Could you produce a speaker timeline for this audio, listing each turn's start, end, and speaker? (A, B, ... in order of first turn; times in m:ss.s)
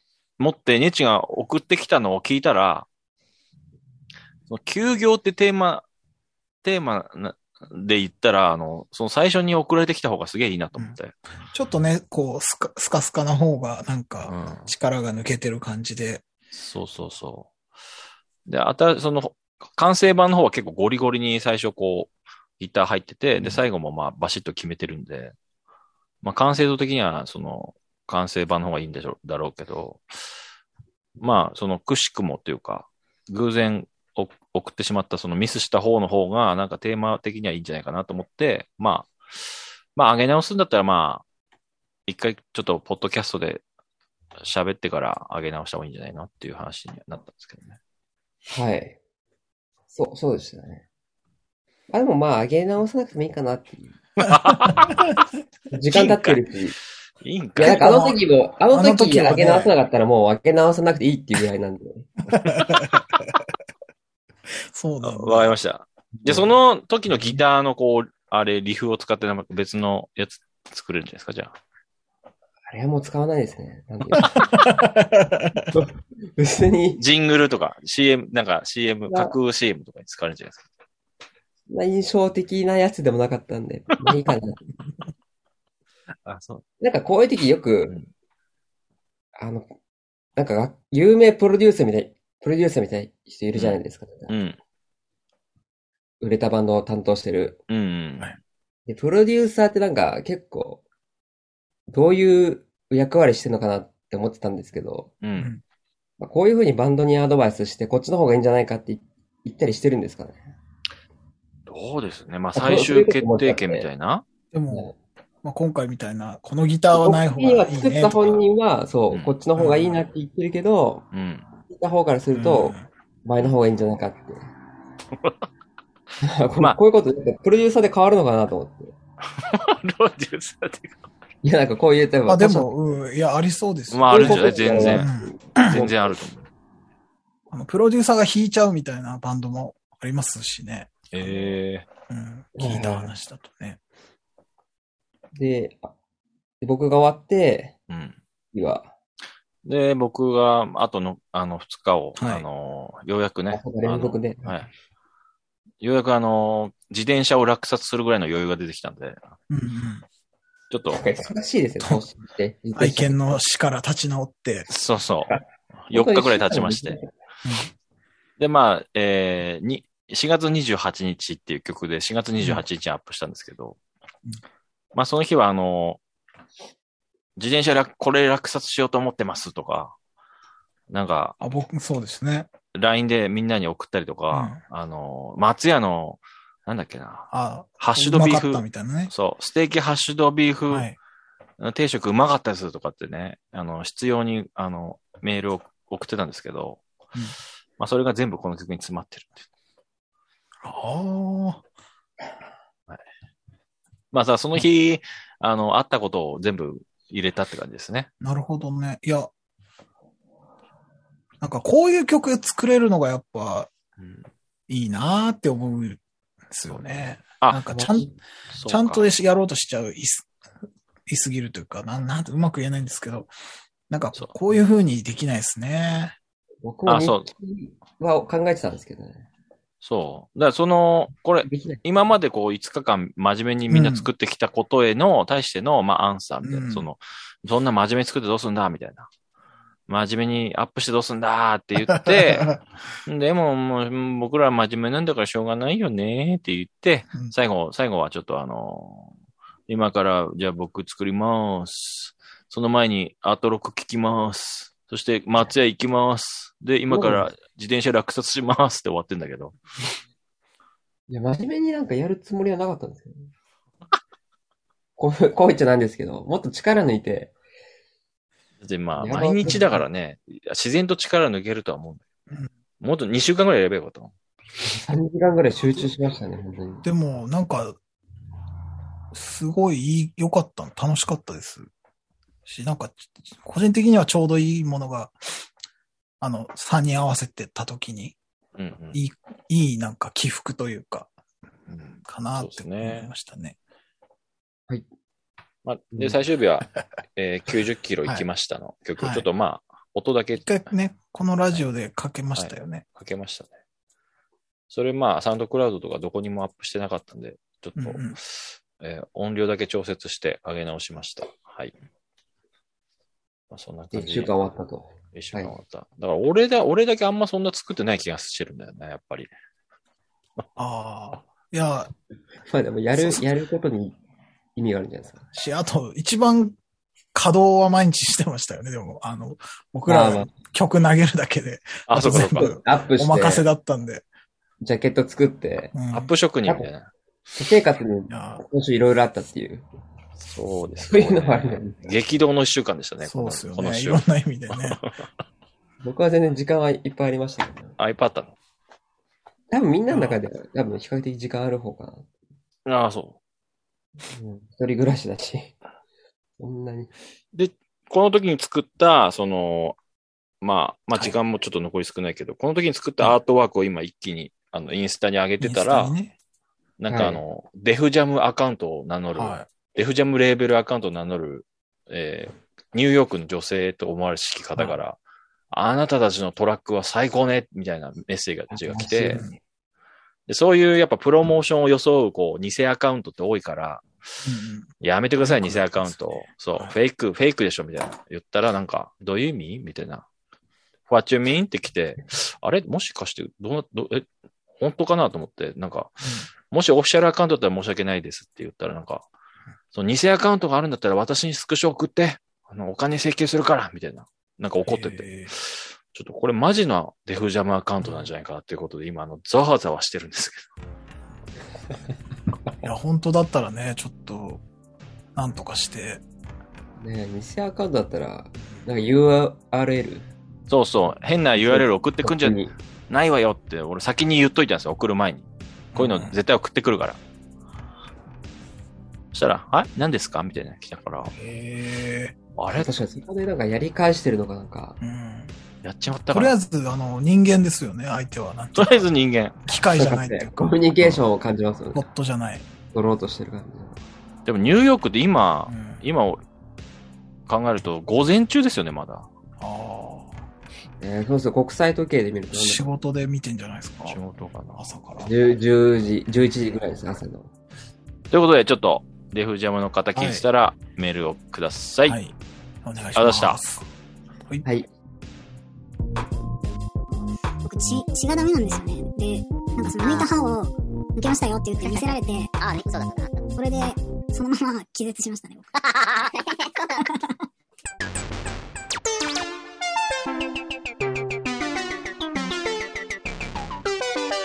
0:00.4-0:02.9 A
0:04.5-0:05.8 A
0:06.6-0:11.1 A
0:11.5-0:16.2 B
0:14.2-0:14.7 A
0:16.5-0:17.5 A
0:18.4-0:25.3 A
0:26.2-0:30.0 A
0:31.2-0:41.2 A
0:42.1-0:43.6 A
0:44.4-0:47.8 A
0:48.5-0:49.0 C
0:49.9-0:50.8 C
0:51.9-0:54.0 C
0:54.2-0:55.1 A
0:54.3-0:55.1 B
0:55.7-0:56.7 C
0:55.9-0:56.4 A
0:57.2-0:57.9 A
0:57.6-1:02.1 C
0:57.6-0:58.2 B
0:58.7-0:59.7 B
1:02.3-1:03.4 B
1:02.4-1:02.9 A
1:04.7-1:05.5 B
1:05.0-1:11.5 A
1:07.1-1:07.4 B
1:12.7-1:14.4 C
1:14.1-1:15.8 B
1:15.7-1:17.0 C
1:17.0-1:20.6 A
1:21.7-1:24.7 C
1:26.2-1:26.6 A
1:26.8-1:28.0 C
1:29.4-1:29.7 C
1:30.4-1:34.3 C
1:33.5-1:34.6 A
1:36.2-1:37.6 C
1:37.7-1:38.3 A
1:38.9-1:40.8 C
1:41.9-1:45.1 C
1:45.2-1:45.5 A
1:45.4-1:45.6 B
1:46.2-1:50.4 C
1:51.7-1:54.2 A
1:52.5-1:53.9 C
1:54.5-1:54.9 B
1:55.4-1:58.3 B
1:56.9-2:01.0 C
1:59.6-1:59.9 B
2:01.1-2:01.4 A
2:01.6-2:04.5 C
2:02.3-2:02.8 B
2:06.2-2:08.9 C
2:09.4-2:11.0 A
2:11.4-2:12.7 C
2:12.3-2:15.8 B
2:13.9-2:16.4 A
2:14.1-2:16.1 C
2:17.5-2:21.5 B
2:21.1-2:21.8 A
2:22.1-2:23.8 B
2:22.6-2:23.1 C
2:25.3-2:25.9 C
2:26.6-2:27.7 C
2:27.9-2:28.2 A
2:28.5-2:28.9 C
2:29.6-2:34.7 A
2:32.2-2:32.4 B
2:33.5-2:34.5 C
2:35.8-2:39.3 A
2:39.5-2:40.0 B
2:40.7-2:41.0 A
2:40.9-2:43.4 C
2:42.8-2:44.7 B
2:44.7-2:45.4 A
2:45.3-2:47.1 C
2:45.9-2:47.0 A
2:47.4-2:47.7 B
2:48.4-2:53.8 A
2:54.9-2:56.0 A
2:57.4-2:59.9 A
3:00.9-3:01.4 A
3:01.4-3:02.5 B
3:02.7-3:10.9 A
3:04.3-3:04.6 B
3:07.3-3:09.1 B
3:10.7-3:11.0 B
3:11.6-3:16.8 A
3:17.8-3:19.4 A
3:20.6-3:21.6 B
3:24.1-3:28.1 A
3:28.2-3:29.3 B
3:31.4-3:33.7 B
3:34.0-3:34.3 A
3:34.7-3:38.1 B
3:36.7-3:37.8 A
3:37.7-3:38.1 C
3:38.5-3:39.1 A
3:38.6-3:40.3 B
3:41.1-3:43.3 B
3:43.9-3:46.2 B
3:46.6-3:49.2 C
3:46.8-3:47.3 A
3:49.8-3:59.1 A
3:51.4-3:51.8 C
3:53.7-3:54.1 B
3:56.4-3:56.9 B
3:59.9-4:09.1 A
4:01.9-4:02.6 B
4:09.7-4:19.6 A
4:16.9-4:17.3 C
4:21.1-4:23.3 C
4:25.0-4:27.3 C
4:28.6-4:32.0 A
4:29.0-4:29.8 C
4:29.4-4:29.8 B
4:32.8-4:34.1 A
4:34.6-4:36.8 C
4:36.8-4:37.8 B
4:39.1-4:41.7 B
4:42.4-4:45.1 B
4:46.2-4:48.2 B
4:48.6-4:49.0 A
4:48.9-4:51.1 B
4:51.7-4:53.1 A
4:52.0-4:53.6 B
4:55.6-5:00.4 A
4:59.0-4:59.3 B
5:00.4-5:02.8 B
5:02.4-5:03.5 A
5:04.7-5:11.7 A
5:07.8-5:08.2 B
5:13.5-5:14.5 A
5:13.9-5:15.5 C
5:15.1-5:19.3 A
5:20.6-5:21.9 B
5:22.5-5:24.0 C
5:24.6-5:25.2 C
5:25.3-5:26.6 B
5:27.1-5:34.0 B
5:29.9-5:30.3 C
5:31.9-5:32.5 A
5:32.1-5:33.5 C
5:34.6-5:35.7 C
5:35.7-5:36.1 B
5:35.9-5:36.9 A
5:37.3-5:39.6 C
5:38.1-5:38.4 B
5:40.2-5:44.9 A
5:40.9-5:42.0 C
5:43.0-5:44.8 B
5:45.8-5:47.8 C
5:47.8-5:48.3 A
5:49.5-5:52.1 C
5:49.9-5:50.2 B
5:52.6-5:53.2 A
5:54.1-5:55.5 C
5:56.4-5:56.9 C
5:57.3-5:59.8 A
6:00.4-6:05.9 A
6:05.4-6:06.2 B
6:06.8-6:15.0 A
6:06.9-6:07.2 C
6:09.1-6:09.5 B
6:15.5-6:19.2 A
6:18.5-6:19.3 C
6:20.3-6:23.9 A
6:24.2-6:26.7 B
6:24.8-6:30.0 A
6:30.9-6:39.1 A
6:36.0-6:36.3 B
6:39.7-6:50.5 A
6:44.6-6:45.3 B
6:47.8-6:48.1 B
6:52.6-6:54.4 B
6:55.1-6:56.0 B
6:56.8-7:00.1 C
7:00.5-7:07.0 A
7:01.4-7:02.5 C
7:05.7-7:06.2 B
7:09.1-7:11.1 A
7:11.1-7:12.2 B
7:12.4-7:12.7 A
7:12.5-7:14.8 C
7:14.8-7:15.3 B
7:15.6-7:16.3 A
7:16.1-7:18.9 B
7:18.6-7:19.4 A
7:19.4-7:20.5 B
7:19.8-7:21.8 C
7:21.7-7:22.4 B
7:22.7-7:23.8 C
7:24.2-7:26.2 A
7:25.5-7:25.8 B
7:27.3-7:29.1 A
7:29.4-7:30.2 B
7:30.8-7:32.6 C
7:32.3-7:34.0 B
7:33.8-7:34.7 A
7:34.6-7:35.1 B
7:35.0-7:37.3 C
7:38.1-7:42.0 A
7:39.9-7:40.2 B
7:41.8-7:43.6 B
7:42.9-7:43.4 A
7:47.4-7:52.4 D
7:49.8-7:50.2 E
7:51.6-7:53.3 E
7:53.3-7:55.6 D
7:55.6-7:56.7 E